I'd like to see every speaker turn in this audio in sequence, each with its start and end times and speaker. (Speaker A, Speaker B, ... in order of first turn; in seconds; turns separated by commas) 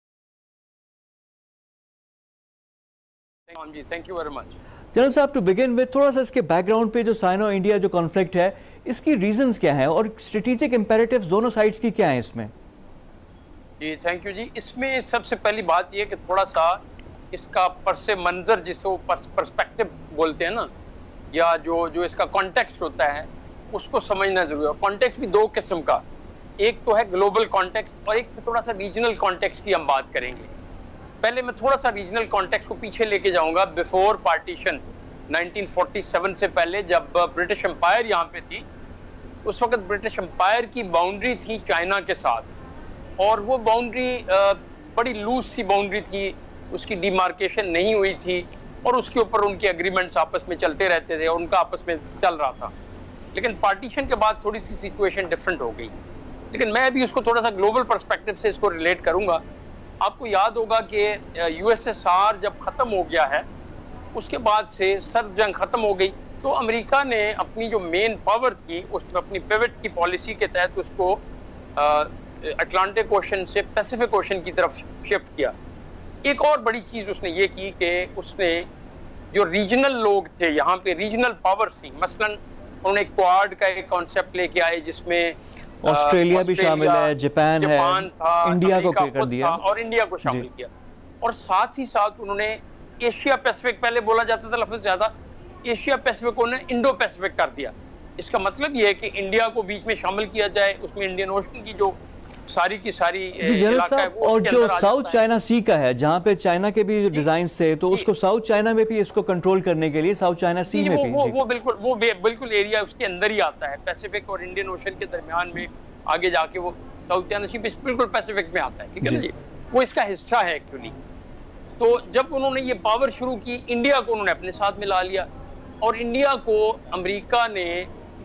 Speaker A: 3.5-4.6, Speaker B: 4.9-12.5, Speaker A: 13.8-16.8, Speaker A: 17.3-20.7, Speaker A: 21.3-26.0, Speaker A: 26.6-30.5, Speaker A: 31.2-38.6, Speaker A: 39.4-42.5, Speaker A: 43.2-52.7, Speaker A: 53.3-55.9, Speaker A: 56.5-59.4, Speaker A: 60.0-63.5, Speaker A: 64.1-71.2, Speaker A: 71.8-75.5, Speaker A: 76.2-78.7, Speaker A: 79.3-90.7, Speaker B: 85.8-89.6, Speaker A: 91.2-95.1, Speaker A: 95.6-101.9, Speaker A: 102.5-105.2, Speaker B: 103.4-111.3, Speaker A: 110.7-120.9, Speaker A: 121.8-125.3, Speaker A: 125.8-127.9